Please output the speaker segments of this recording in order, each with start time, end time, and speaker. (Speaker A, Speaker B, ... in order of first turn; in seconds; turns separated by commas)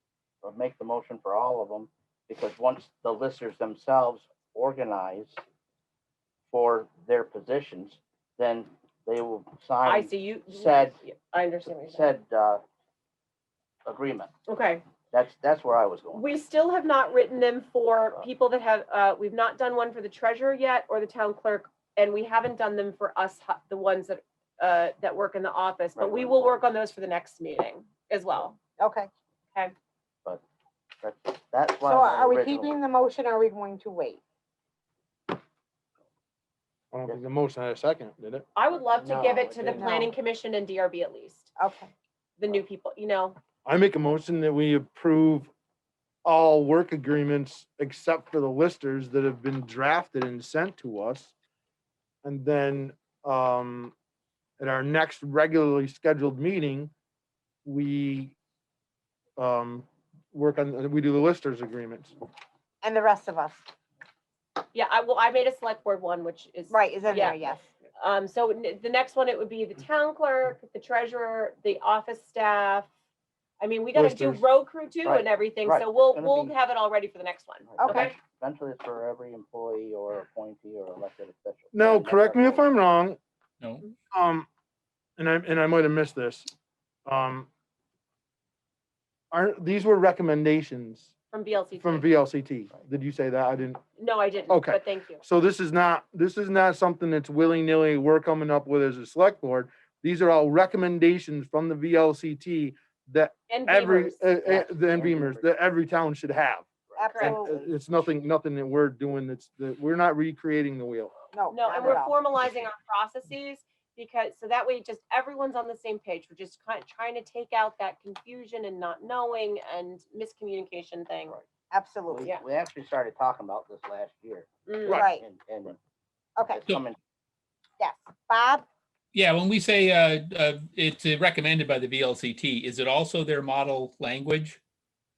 Speaker A: 0.4-5.4, Speaker A: 6.5-11.0, Speaker B: 9.8-12.1, Speaker A: 11.8-12.6, Speaker A: 13.8-14.3, Speaker B: 14.5-14.8, Speaker A: 15.1-16.3, Speaker B: 16.1-28.6, Speaker A: 25.9-26.6, Speaker C: 28.8-29.1, Speaker A: 31.0-32.7, Speaker C: 31.8-34.2, Speaker D: 36.9-39.7, Speaker B: 38.5-41.5, Speaker A: 38.8-39.8, Speaker C: 39.7-40.1, Speaker C: 41.6-41.9, Speaker B: 42.4-43.4, Speaker D: 43.6-45.5, Speaker D: 46.2-51.3, Speaker D: 52.2-53.9, Speaker D: 54.6-56.9, Speaker D: 57.6-58.3, Speaker D: 59.4-62.1, Speaker C: 62.8-63.6, Speaker B: 64.7-67.4, Speaker C: 66.7-67.7, Speaker B: 68.0-72.9, Speaker B: 73.6-78.1, Speaker D: 73.9-74.4, Speaker A: 75.0-76.5, Speaker A: 77.7-82.7, Speaker C: 77.8-78.1, Speaker D: 81.7-83.2, Speaker D: 84.1-84.5, Speaker D: 85.2-86.5, Speaker D: 87.0-87.5, Speaker D: 89.3-91.1, Speaker B: 91.3-92.1, Speaker D: 91.8-93.8, Speaker B: 94.0-95.2, Speaker D: 94.5-111.2, Speaker B: 103.5-104.2, Speaker A: 104.4-105.6, Speaker A: 106.9-107.2, Speaker C: 107.0-107.7, Speaker B: 107.0-107.4, Speaker C: 111.3-112.2, Speaker B: 111.5-121.3, Speaker C: 121.7-122.3, Speaker A: 122.1-125.8, Speaker B: 124.7-125.0, Speaker D: 124.8-125.1, Speaker C: 124.9-125.2, Speaker A: 126.4-127.0, Speaker C: 127.8-128.6, Speaker E: 129.1-134.6